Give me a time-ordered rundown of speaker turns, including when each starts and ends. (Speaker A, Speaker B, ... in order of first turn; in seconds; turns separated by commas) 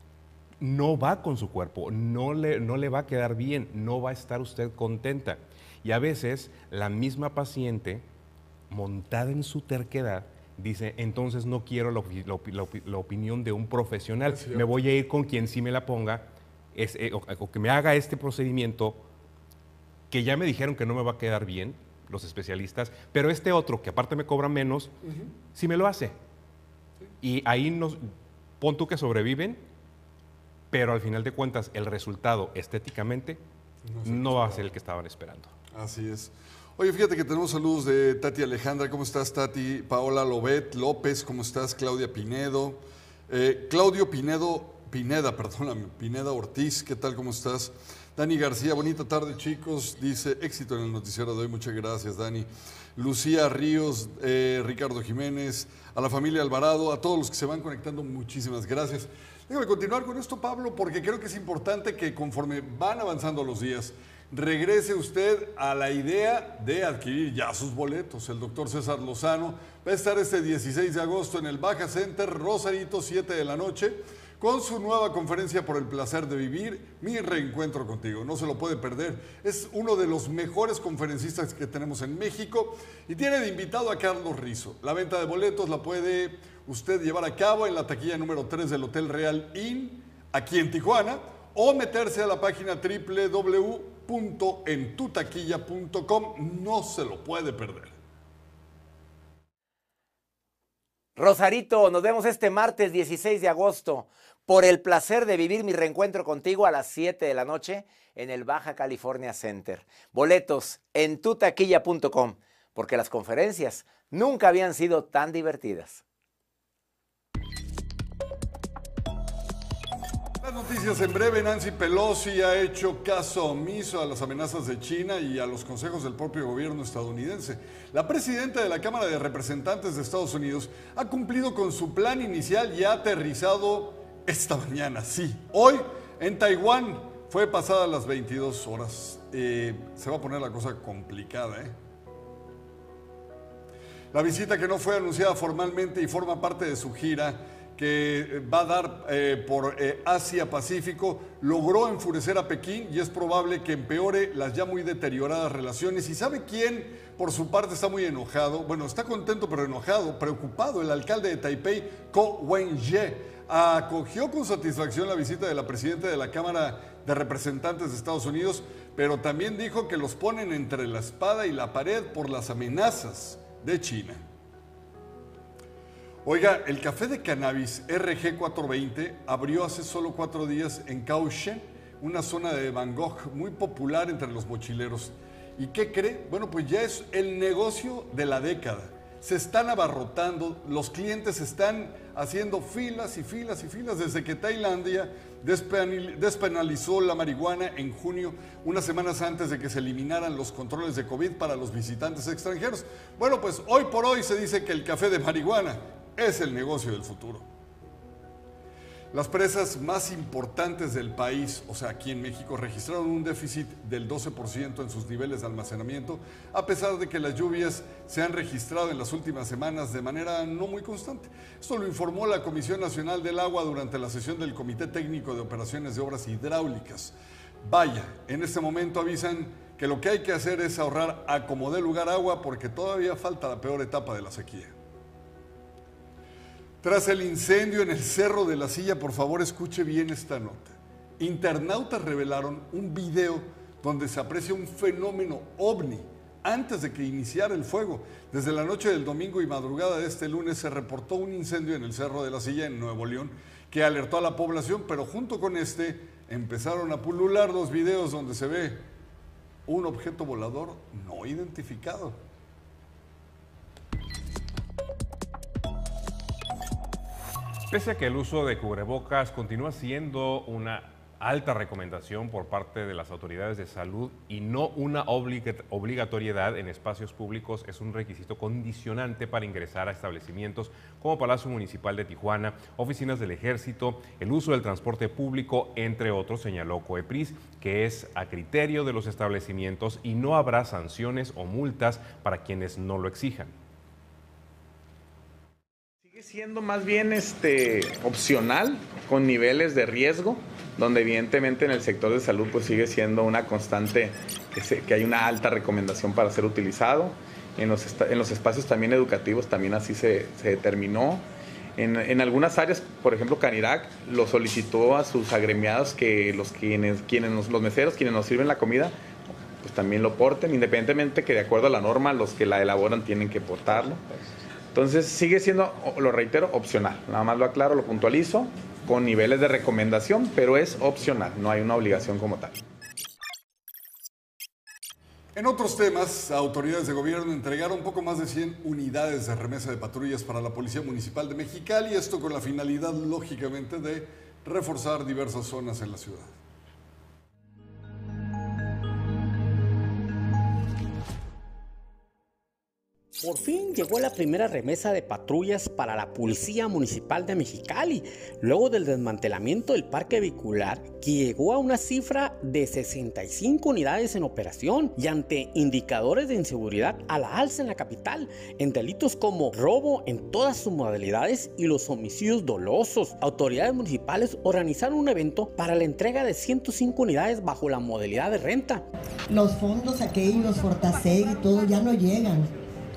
Speaker A: 0.6-8.1, Speaker A: 8.7-19.0, Speaker B: 14.3-14.7, Speaker A: 20.1-24.9, Speaker B: 25.0-25.3, Speaker A: 25.5-26.2, Speaker A: 27.2-28.1, Speaker A: 28.6-29.6, Speaker A: 30.7-33.4, Speaker B: 33.9-34.7, Speaker A: 34.0-35.5, Speaker B: 35.7-98.0, Speaker C: 101.2-116.0, Speaker B: 120.4-141.8, Speaker B: 144.1-174.2, Speaker B: 176.2-207.5, Speaker B: 209.1-234.8, Speaker B: 236.8-258.9, Speaker B: 259.7-262.2, Speaker A: 267.7-293.5, Speaker D: 296.1-311.2, Speaker D: 311.8-319.0, Speaker D: 319.6-324.0, Speaker D: 324.7-332.6, Speaker B: 335.4-346.4, Speaker E: 353.2-378.9, Speaker F: 379.3-382.5